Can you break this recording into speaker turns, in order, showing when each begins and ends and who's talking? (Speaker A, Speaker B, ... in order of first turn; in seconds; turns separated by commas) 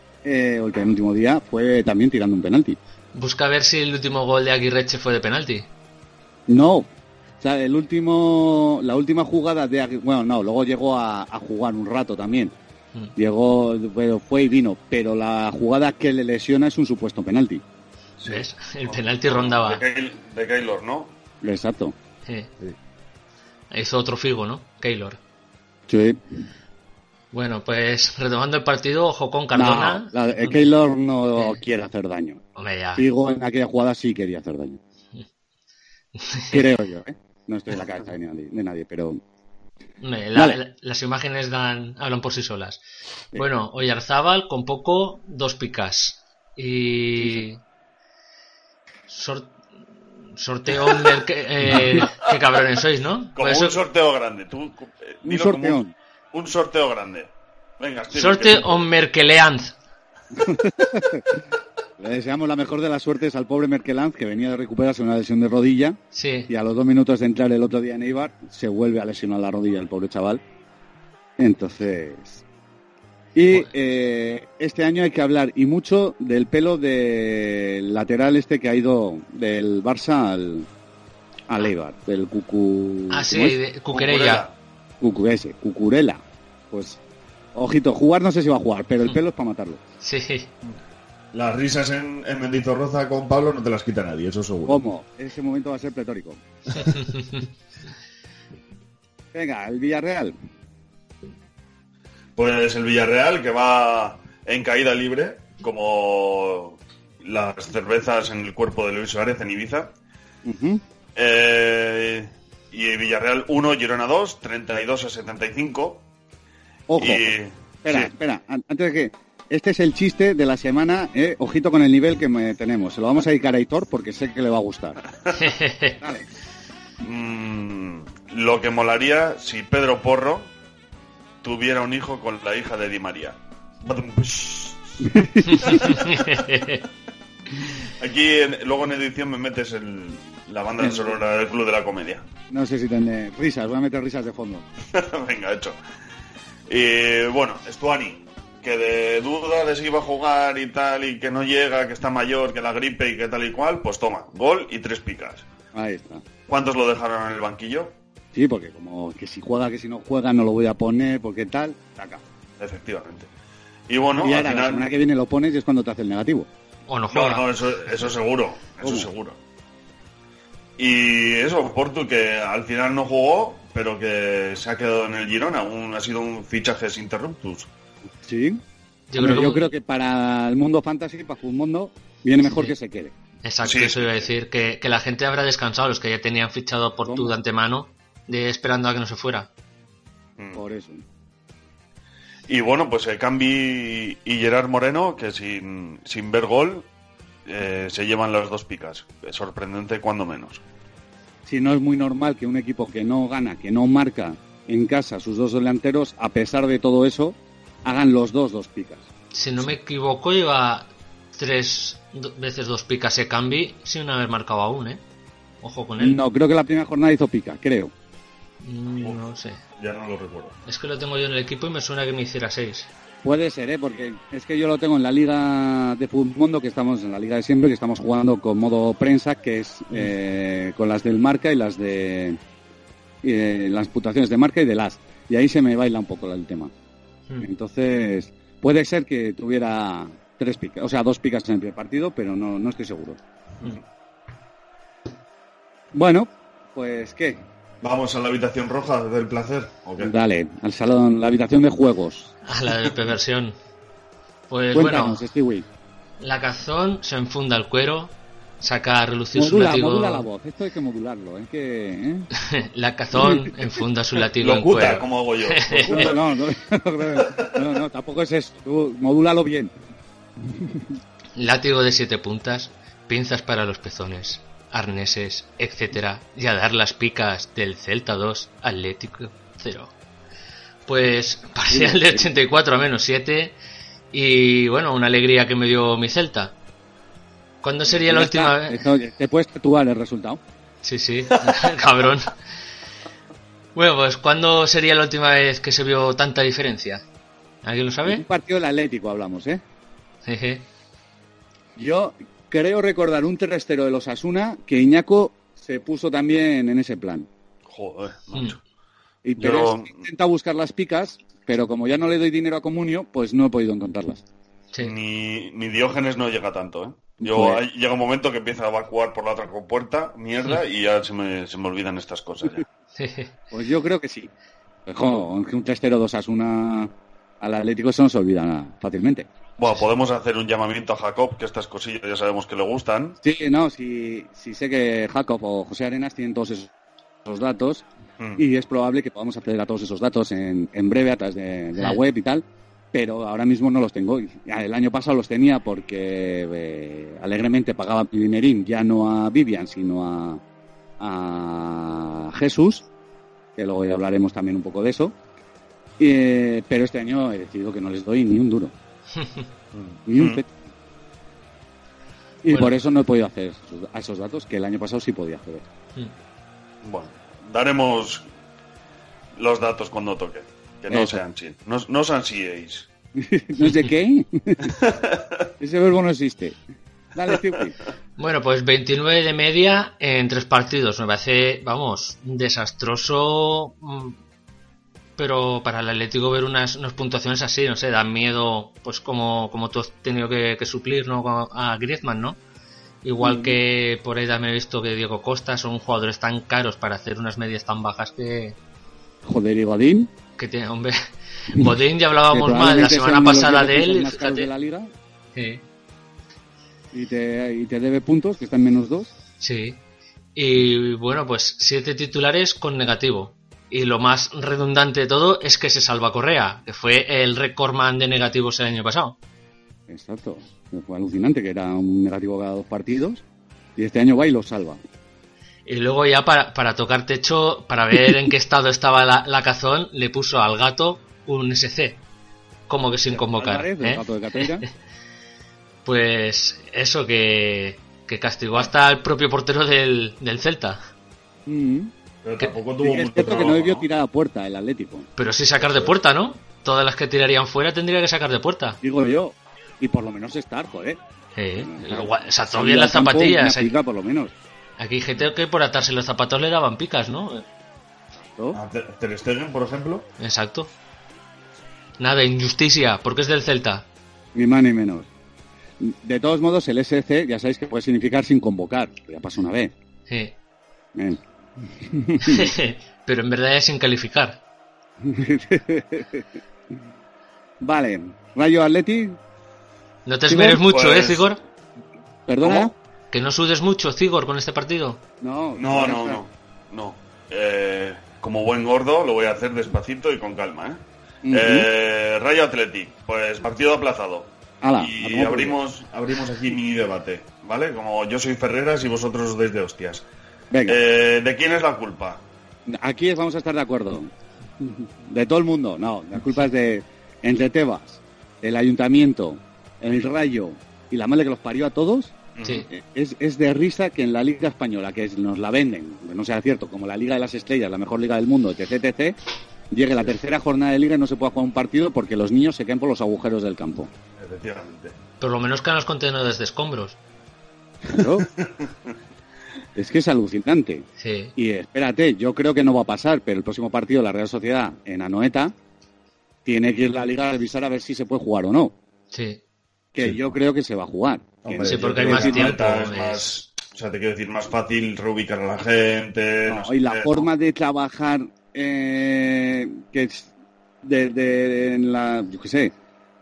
Speaker A: 0.2-2.8, Speaker B: 3.1-5.7, Speaker A: 6.5-6.9, Speaker A: 7.4-12.5, Speaker A: 13.2-17.6, Speaker C: 18.2-21.1, Speaker B: 18.2-19.8, Speaker A: 21.4-21.9, Speaker B: 22.2-22.5, Speaker B: 23.7-25.2, Speaker A: 25.9-26.2, Speaker B: 27.3-30.6, Speaker A: 29.5-32.4, Speaker B: 32.5-33.0, Speaker A: 33.0-34.8, Speaker B: 36.2-36.6, Speaker A: 36.5-39.2, Speaker B: 40.0-42.8, Speaker B: 43.3-47.6, Speaker B: 49.1-49.5, Speaker B: 50.3-53.8, Speaker C: 53.4-55.8, Speaker A: 55.2-55.9, Speaker C: 56.3-58.8, Speaker B: 58.1-59.7, Speaker A: 60.4-61.4, Speaker A: 62.0-70.4, Speaker B: 66.1-66.5, Speaker A: 71.4-72.4, Speaker A: 73.3-80.7, Speaker A: 81.5-83.6, Speaker B: 83.1-84.4, Speaker C: 83.9-84.5, Speaker A: 85.0-87.0, Speaker A: 87.5-89.8, Speaker B: 90.0-90.5, Speaker C: 91.3-94.8, Speaker A: 94.7-96.4, Speaker B: 96.8-97.4, Speaker A: 99.3-100.3, Speaker C: 102.3-109.9, Speaker A: 110.4-110.8, Speaker C: 111.2-116.0, Speaker A: 116.9-117.3, Speaker C: 117.0-118.1, Speaker A: 117.8-125.0, Speaker B: 125.3-126.0, Speaker C: 127.0-130.5, Speaker C: 131.4-134.9, Speaker A: 135.0-136.0, Speaker B: 135.5-136.8, Speaker C: 135.7-136.4, Speaker C: 137.8-142.2, Speaker A: 140.8-141.2, Speaker A: 142.5-144.7, Speaker C: 144.9-145.8, Speaker C: 146.7-155.4, Speaker A: 155.7-156.2, Speaker C: 156.5-157.9, Speaker A: 158.3-162.2, Speaker C: 162.6-163.3, Speaker C: 163.9-164.9, Speaker A: 164.2-166.5, Speaker B: 166.9-167.4, Speaker C: 167.1-169.4, Speaker A: 168.8-169.1, Speaker C: 170.8-177.7, Speaker A: 178.2-178.6, Speaker B: 179.1-179.7, Speaker A: 179.2-183.1, Speaker B: 183.4-189.5, Speaker C: 183.6-184.3, Speaker A: 187.1-187.3, Speaker A: 190.5-191.0, Speaker C: 192.5-196.9, Speaker C: 197.4-200.6, Speaker A: 201.4-209.1, Speaker B: 209.3-215.0, Speaker B: 215.6-216.2, Speaker A: 216.0-217.9, Speaker B: 218.6-219.6, Speaker C: 219.8-220.6, Speaker B: 220.7-222.9, Speaker A: 223.2-232.4, Speaker A: 233.2-236.7, Speaker A: 237.4-243.2, Speaker A: 245.9-247.4, Speaker C: 247.8-250.1, Speaker A: 250.0-252.3, Speaker B: 252.4-253.5, Speaker B: 254.5-255.2, Speaker A: 254.7-255.7, Speaker B: 256.2-260.2, Speaker A: 259.3-262.3, Speaker B: 262.4-266.1, Speaker A: 263.1-263.5, Speaker C: 264.4-266.3, Speaker A: 265.9-269.7, Speaker C: 267.2-267.6, Speaker A: 270.5-270.9, Speaker B: 271.4-279.9, Speaker B: 280.9-283.5, Speaker A: 281.7-282.3, Speaker B: 284.1-286.5, Speaker B: 287.6-288.9, Speaker A: 287.9-290.4, Speaker B: 290.8-292.4, Speaker B: 293.7-297.0, Speaker B: 297.6-298.2, Speaker A: 298.1-299.6, Speaker B: 300.2-300.6, Speaker A: 301.8-307.3, Speaker C: 307.7-308.6, Speaker A: 309.2-314.2, Speaker C: 309.4-310.0, Speaker C: 314.8-322.6, Speaker A: 317.2-317.6, Speaker B: 322.9-323.3, Speaker A: 323.5-324.3, Speaker A: 324.9-329.3, Speaker C: 329.6-333.2, Speaker A: 333.2-336.7, Speaker A: 337.2-337.8, Speaker C: 338.2-338.4, Speaker A: 338.4-350.4, Speaker A: 351.0-352.8, Speaker A: 353.6-355.1, Speaker A: 356.0-358.7, Speaker B: 359.1-359.5, Speaker C: 359.7-360.4, Speaker A: 360.1-360.5, Speaker A: 362.4-365.6, Speaker C: 366.8-368.2, Speaker C: 369.3-372.9, Speaker A: 370.9-371.2, Speaker A: 373.2-374.8, Speaker C: 374.8-375.1, Speaker A: 375.6-376.6, Speaker A: 377.1-377.8, Speaker B: 378.2-384.2, Speaker B: 385.2-392.4, Speaker B: 393.0-398.6, Speaker A: 393.2-393.6, Speaker A: 399.2-400.1, Speaker B: 400.4-404.5, Speaker A: 402.3-404.9, Speaker B: 405.3-405.6, Speaker A: 406.9-409.1, Speaker B: 409.4-409.8, Speaker B: 410.4-419.1, Speaker A: 419.9-423.2, Speaker A: 423.8-424.8, Speaker B: 425.6-432.0, Speaker B: 432.7-434.4, Speaker A: 433.1-434.6, Speaker B: 435.8-440.8, Speaker A: 441.4-441.9, Speaker C: 442.2-443.9, Speaker A: 442.8-445.1, Speaker B: 445.2-448.8, Speaker A: 448.8-451.0, Speaker B: 451.4-453.7, Speaker A: 451.6-454.3, Speaker B: 454.8-457.4, Speaker A: 458.2-458.6, Speaker C: 458.5-460.1, Speaker B: 460.2-460.7, Speaker B: 462.0-463.9, Speaker A: 464.3-465.1, Speaker A: 465.8-469.7, Speaker B: 470.1-470.3, Speaker A: 470.9-472.5, Speaker B: 472.2-474.4, Speaker A: 475.0-476.2, Speaker A: 477.6-479.2, Speaker B: 480.1-481.4, Speaker A: 480.3-480.6, Speaker C: 480.7-481.3, Speaker A: 482.3-482.7, Speaker C: 482.4-482.7, Speaker B: 483.1-485.0, Speaker A: 485.2-486.2, Speaker C: 485.6-490.8, Speaker A: 491.2-491.7, Speaker C: 491.3-500.0, Speaker A: 494.6-495.6, Speaker A: 500.5-500.8, Speaker C: 500.6-502.2, Speaker A: 502.7-504.1, Speaker A: 504.6-512.1, Speaker C: 512.4-512.6, Speaker A: 512.7-519.2, Speaker A: 519.7-523.9, Speaker C: 524.2-524.9, Speaker B: 525.2-527.0, Speaker A: 527.9-528.3, Speaker A: 529.8-535.5, Speaker B: 531.0-531.3, Speaker A: 536.4-538.7, Speaker B: 539.1-539.4, Speaker A: 539.9-542.7, Speaker C: 540.0-540.3, Speaker C: 541.4-547.3, Speaker B: 541.6-543.3, Speaker A: 546.5-550.3, Speaker A: 550.8-552.7